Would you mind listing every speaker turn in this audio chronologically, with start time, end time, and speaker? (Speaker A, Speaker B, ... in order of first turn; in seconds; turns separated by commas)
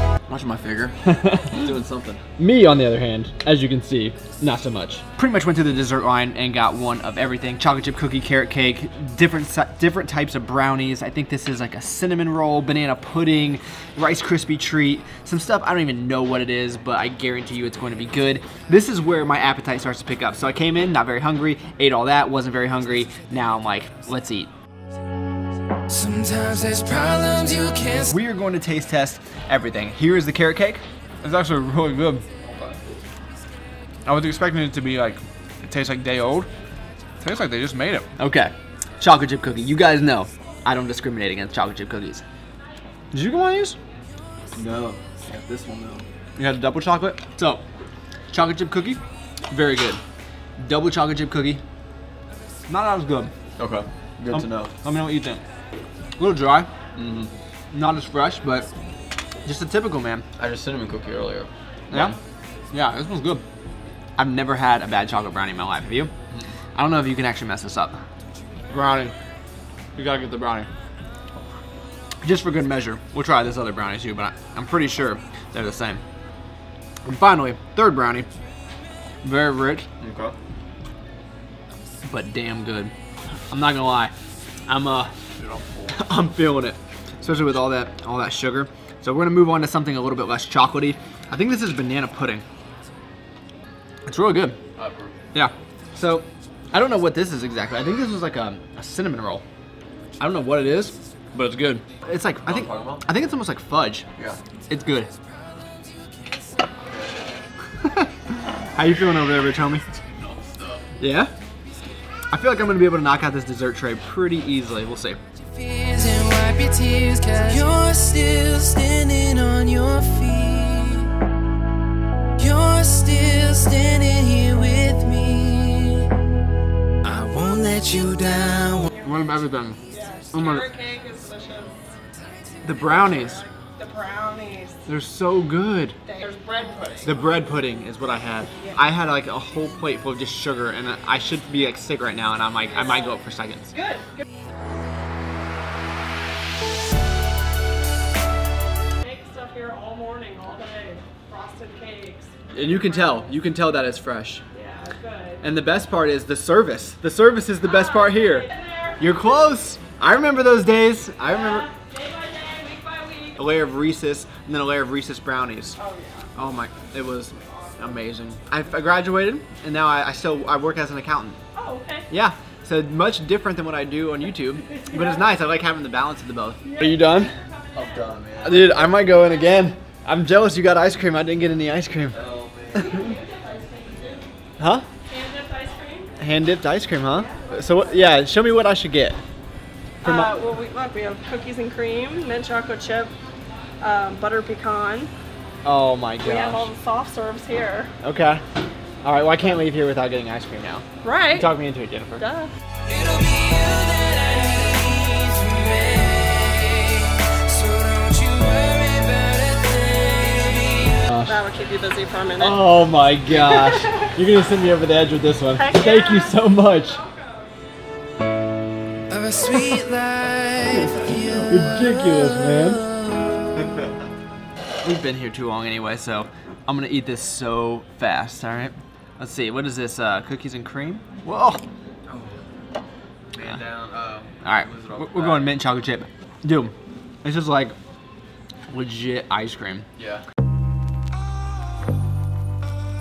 Speaker A: 0.3-2.2, Speaker B: 1.1-1.7, Speaker B: 2.4-24.5, Speaker C: 25.9-28.1, Speaker B: 27.8-32.2, Speaker A: 32.4-33.0, Speaker B: 34.1-36.5, Speaker B: 37.2-42.2, Speaker B: 43.1-43.8, Speaker A: 44.5-46.1, Speaker B: 46.4-47.6, Speaker B: 48.3-50.0, Speaker B: 50.6-51.6, Speaker B: 52.7-53.3, Speaker A: 53.6-54.7, Speaker B: 54.3-55.4, Speaker B: 56.2-56.7, Speaker A: 57.0-57.3, Speaker B: 57.7-58.7, Speaker B: 59.4-60.2, Speaker A: 60.4-62.2, Speaker B: 61.9-62.2, Speaker B: 62.7-63.4, Speaker B: 64.2-66.1, Speaker B: 66.8-68.0, Speaker B: 68.7-69.2, Speaker B: 69.9-70.7, Speaker B: 72.2-76.0, Speaker B: 77.0-78.3, Speaker B: 79.2-79.9, Speaker A: 80.0-80.4, Speaker B: 82.0-82.9, Speaker B: 83.5-84.1, Speaker B: 84.7-85.1, Speaker A: 85.3-86.0, Speaker B: 85.9-92.4, Speaker B: 94.1-94.6, Speaker A: 94.8-95.2, Speaker B: 95.3-99.4, Speaker B: 100.2-104.1, Speaker A: 102.4-103.0, Speaker B: 104.7-105.1, Speaker A: 106.8-107.2, Speaker B: 107.8-109.8, Speaker A: 109.9-110.9, Speaker B: 111.0-111.3, Speaker B: 112.3-115.2, Speaker C: 115.6-121.1, Speaker C: 122.4-126.2, Speaker C: 127.0-128.9, Speaker B: 129.0-129.8, Speaker D: 129.9-131.8, Speaker B: 130.3-130.7, Speaker B: 132.6-133.4, Speaker D: 132.7-134.8, Speaker B: 134.9-136.0, Speaker D: 136.1-137.2, Speaker B: 137.0-143.7, Speaker D: 143.7-144.1, Speaker D: 149.0-153.2, Speaker B: 152.5-154.4, Speaker D: 154.5-155.4, Speaker B: 155.4-158.5, Speaker D: 157.6-159.3, Speaker B: 159.0-161.7, Speaker D: 161.2-163.5, Speaker B: 163.4-165.8, Speaker D: 165.8-166.3, Speaker B: 166.3-171.4, Speaker D: 171.6-172.1, Speaker B: 172.1-177.3, Speaker D: 174.7-175.2, Speaker D: 176.7-178.2, Speaker A: 177.7-178.8, Speaker B: 178.4-182.2, Speaker D: 178.8-179.6, Speaker A: 182.1-183.2, Speaker D: 182.7-184.3, Speaker B: 184.6-184.9, Speaker D: 185.1-186.1, Speaker B: 186.2-189.2, Speaker D: 187.1-188.1, Speaker B: 190.0-190.4, Speaker D: 190.0-193.1, Speaker D: 193.8-195.1, Speaker B: 195.7-196.7, Speaker D: 196.2-197.9, Speaker B: 198.0-198.4, Speaker B: 199.0-202.3, Speaker D: 201.0-201.5, Speaker D: 202.2-202.5, Speaker C: 202.9-211.1, Speaker B: 211.1-211.4, Speaker D: 211.2-212.7, Speaker B: 212.4-217.0, Speaker D: 215.5-217.5, Speaker C: 219.1-223.4, Speaker B: 220.7-222.8, Speaker B: 224.8-231.6, Speaker A: 232.1-232.4, Speaker A: 233.3-235.6, Speaker B: 234.4-237.8, Speaker B: 238.7-239.9, Speaker A: 240.0-240.2